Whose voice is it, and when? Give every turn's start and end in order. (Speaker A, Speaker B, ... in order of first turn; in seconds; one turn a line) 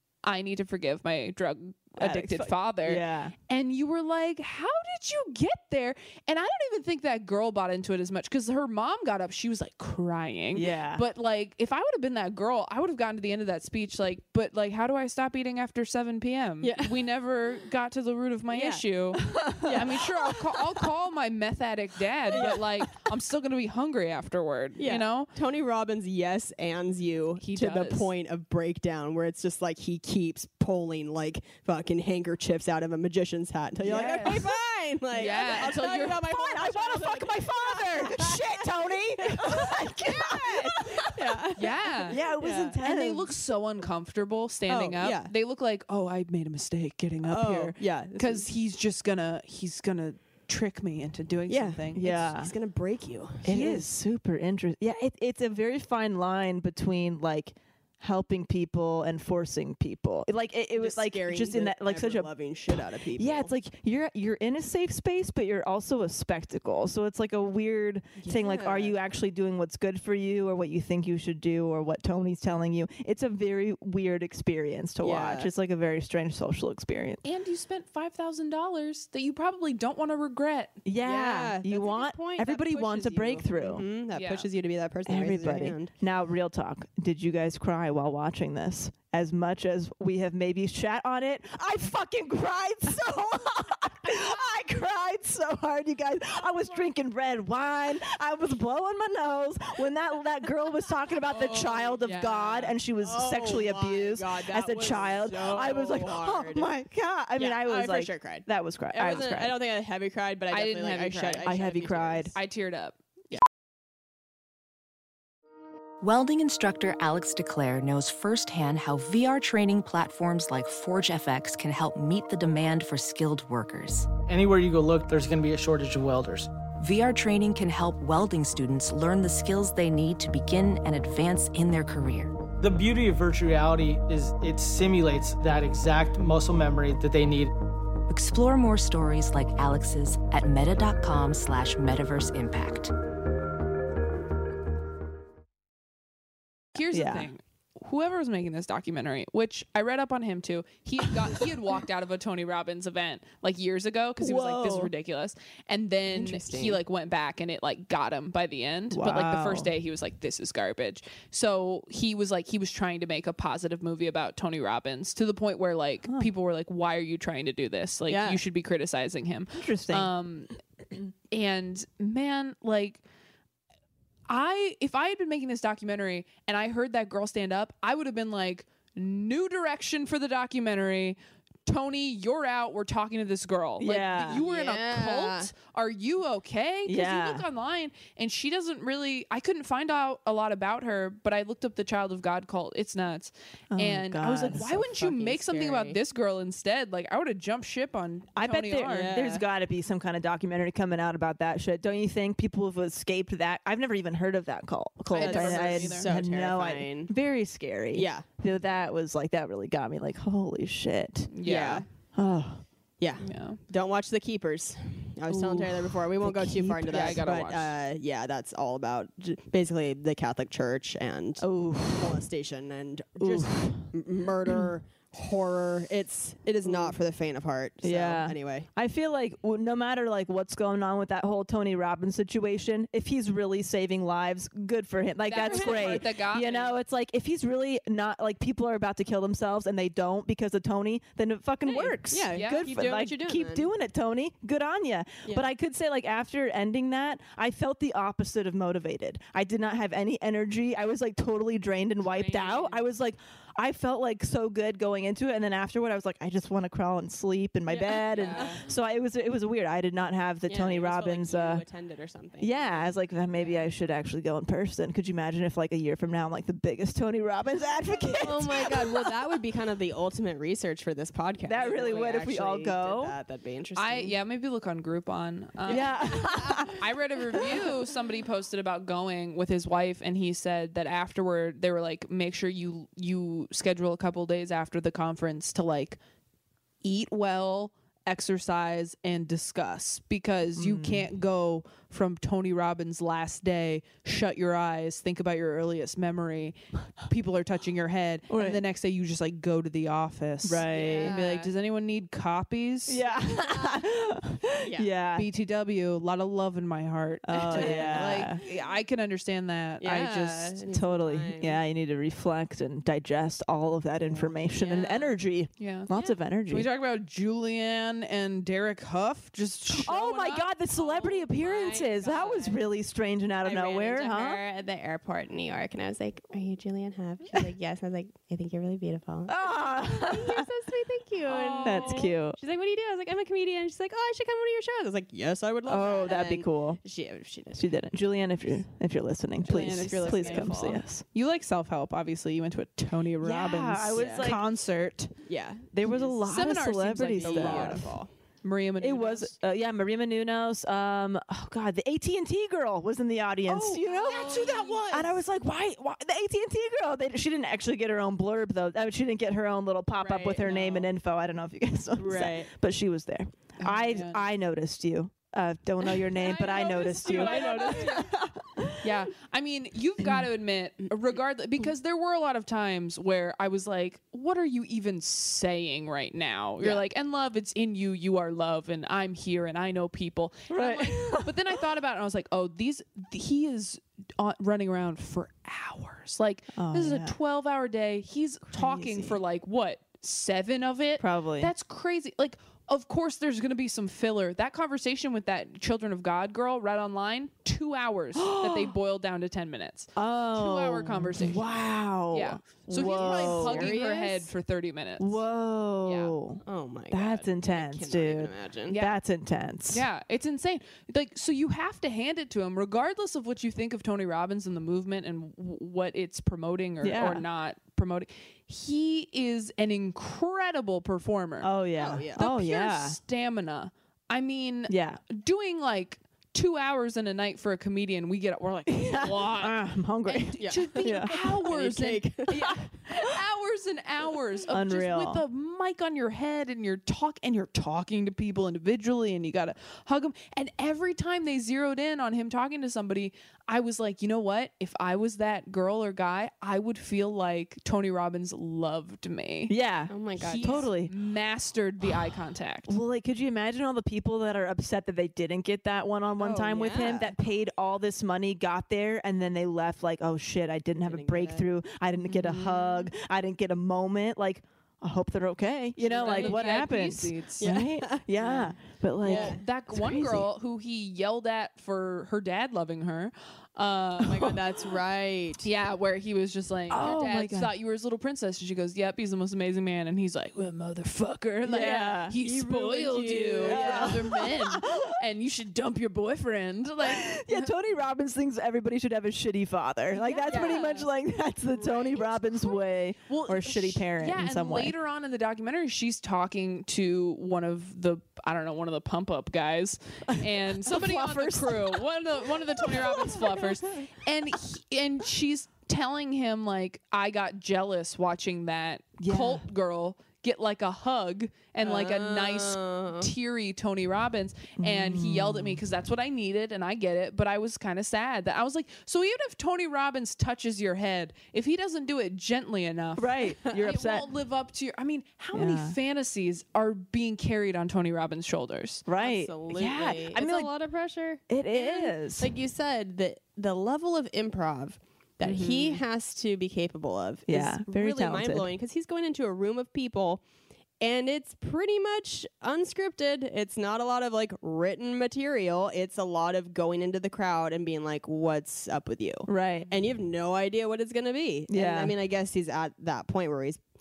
Speaker A: 0.2-25.3
Speaker B: 2.0-3.3
Speaker B: 10.5-11.0
Speaker C: 16.6-17.0
Speaker C: 18.5-18.8
Speaker B: 19.2-20.1
Speaker C: 19.6-20.1
Speaker C: 22.3-22.8
Speaker C: 24.8-42.8
Speaker A: 27.4-28.1
Speaker B: 33.8-34.6
Speaker A: 33.9-34.4
Speaker A: 35.1-36.2
Speaker B: 35.1-41.5
Speaker A: 41.5-42.2
Speaker B: 42.1-43.3
Speaker A: 42.8-52.1
Speaker C: 44.7-45.3
Speaker C: 47.2-48.5
Speaker C: 51.5-53.9
Speaker B: 51.9-52.5
Speaker B: 53.4-77.2
Speaker C: 60.7-63.5
Speaker C: 68.2-69.0
Speaker C: 75.0-75.5
Speaker A: 77.2-80.8
Speaker B: 80.8-83.8
Speaker C: 81.0-85.9
Speaker A: 84.1-84.5
Speaker B: 85.1-109.6
Speaker C: 101.3-102.0
Speaker A: 102.0-102.7
Speaker C: 103.0-106.7
Speaker C: 107.4-112.3
Speaker A: 110.5-111.7
Speaker B: 111.4-112.3
Speaker A: 112.3-113.0
Speaker D: 116.0-124.1
Speaker E: 124.3-126.5
Speaker D: 126.8-132.3
Speaker E: 132.6-137.5
Speaker D: 138.1-142.9
Speaker A: 146.7-170.5
Speaker B: 146.9-147.3
Speaker B: 154.2-154.9
Speaker C: 156.1-156.8
Speaker B: 158.9-159.7
Speaker C: 168.1-168.4
Speaker B: 169.5-170.1
Speaker A: 171.3-173.0
Speaker A: 174.3-199.2
Speaker B: 183.8-184.4
Speaker C: 184.4-185.5
Speaker B: 186.8-187.4
Speaker B: 193.7-194.8
Speaker C: 194.5-196.0
Speaker B: 198.3-211.3
Speaker C: 198.9-199.4
Speaker A: 205.1-206.1
Speaker C: 205.1-207.1
Speaker C: 207.9-208.2
Speaker A: 211.3-211.8
Speaker C: 211.4-211.8
Speaker B: 212.2-212.6
Speaker C: 213.0-228.7
Speaker A: 213.2-213.6
Speaker B: 215.3-217.2
Speaker A: 216.9-217.7
Speaker B: 221.4-222.2
Speaker B: 223.2-223.9
Speaker B: 226.6-226.9
Speaker B: 227.8-261.6
Speaker A: 235.2-236.8
Speaker C: 235.4-236.0
Speaker C: 241.9-243.7
Speaker A: 242.2-242.7
Speaker A: 252.1-252.8
Speaker C: 257.7-258.6
Speaker A: 258.1-258.6
Speaker C: 260.5-263.6
Speaker B: 262.4-269.2
Speaker C: 268.0-274.1
Speaker B: 271.4-273.1
Speaker A: 271.6-272.2
Speaker A: 273.8-286.0
Speaker B: 275.6-276.8
Speaker C: 275.7-276.8
Speaker A: 286.8-303.0
Speaker B: 290.5-291.1
Speaker B: 298.3-298.6
Speaker B: 300.4-301.1
Speaker C: 300.7-301.5
Speaker B: 302.9-305.3
Speaker C: 303.2-303.9
Speaker C: 304.6-304.9
Speaker A: 305.1-310.6
Speaker B: 307.2-308.4
Speaker C: 307.5-308.6
Speaker C: 309.8-311.6
Speaker B: 310.7-316.7
Speaker A: 314.6-315.9
Speaker A: 316.5-320.5
Speaker B: 319.7-324.4
Speaker C: 320.7-322.6
Speaker C: 323.4-337.7
Speaker B: 329.3-330.5
Speaker A: 331.2-332.1
Speaker B: 331.6-332.4
Speaker B: 335.7-336.8
Speaker B: 337.5-341.0
Speaker A: 339.5-345.1
Speaker C: 339.5-340.8
Speaker B: 343.2-344.4
Speaker C: 343.9-344.3
Speaker C: 345.2-346.6
Speaker B: 345.7-347.9
Speaker A: 346.3-347.9
Speaker C: 347.2-348.1
Speaker A: 348.4-349.3
Speaker B: 348.8-368.9
Speaker A: 353.5-355.1
Speaker C: 354.1-355.0
Speaker C: 360.1-360.3
Speaker A: 360.1-360.9
Speaker C: 362.0-362.5
Speaker A: 363.6-364.2
Speaker C: 366.2-368.1
Speaker A: 366.2-368.1
Speaker A: 368.8-401.4
Speaker B: 380.5-381.6
Speaker B: 386.5-387.1
Speaker B: 388.5-389.2
Speaker B: 391.0-391.5
Speaker B: 398.1-398.7
Speaker B: 399.9-403.7
Speaker A: 402.1-405.2
Speaker C: 402.8-404.3
Speaker B: 405.0-409.9
Speaker A: 405.8-406.1
Speaker C: 406.4-408.8
Speaker A: 408.7-408.9
Speaker A: 409.7-421.5
Speaker B: 416.8-417.2
Speaker B: 421.4-423.0
Speaker C: 421.8-422.2
Speaker A: 422.2-449.5
Speaker B: 424.7-425.0
Speaker B: 428.7-431.2
Speaker C: 430.4-432.6
Speaker B: 434.5-435.2
Speaker B: 449.5-450.9
Speaker C: 449.9-450.7
Speaker A: 450.1-452.7
Speaker B: 452.7-470.3
Speaker C: 456.2-457.1
Speaker C: 460.8-461.5
Speaker A: 462.1-462.9
Speaker C: 465.8-466.5
Speaker A: 465.8-467.5
Speaker C: 467.4-468.1
Speaker A: 468.2-468.5
Speaker A: 469.0-474.3
Speaker C: 469.0-469.4
Speaker C: 474.0-475.5
Speaker A: 475.4-487.5
Speaker B: 476.7-477.5
Speaker B: 481.4-482.2
Speaker C: 482.2-484.2
Speaker B: 483.3-485.0
Speaker B: 486.8-494.7
Speaker A: 489.9-490.8
Speaker C: 490.3-490.7
Speaker A: 491.6-492.5
Speaker A: 493.1-528.8
Speaker B: 500.1-501.8
Speaker B: 502.6-503.5
Speaker B: 509.0-509.4
Speaker C: 511.6-513.1
Speaker B: 514.6-515.6
Speaker B: 523.0-524.1
Speaker B: 525.3-525.8
Speaker B: 528.9-530.5
Speaker C: 529.0-540.2
Speaker B: 531.3-532.3
Speaker A: 535.2-535.8
Speaker B: 535.2-535.5
Speaker B: 537.3-538.5
Speaker C: 540.8-553.6
Speaker B: 549.3-549.7
Speaker B: 551.5-551.9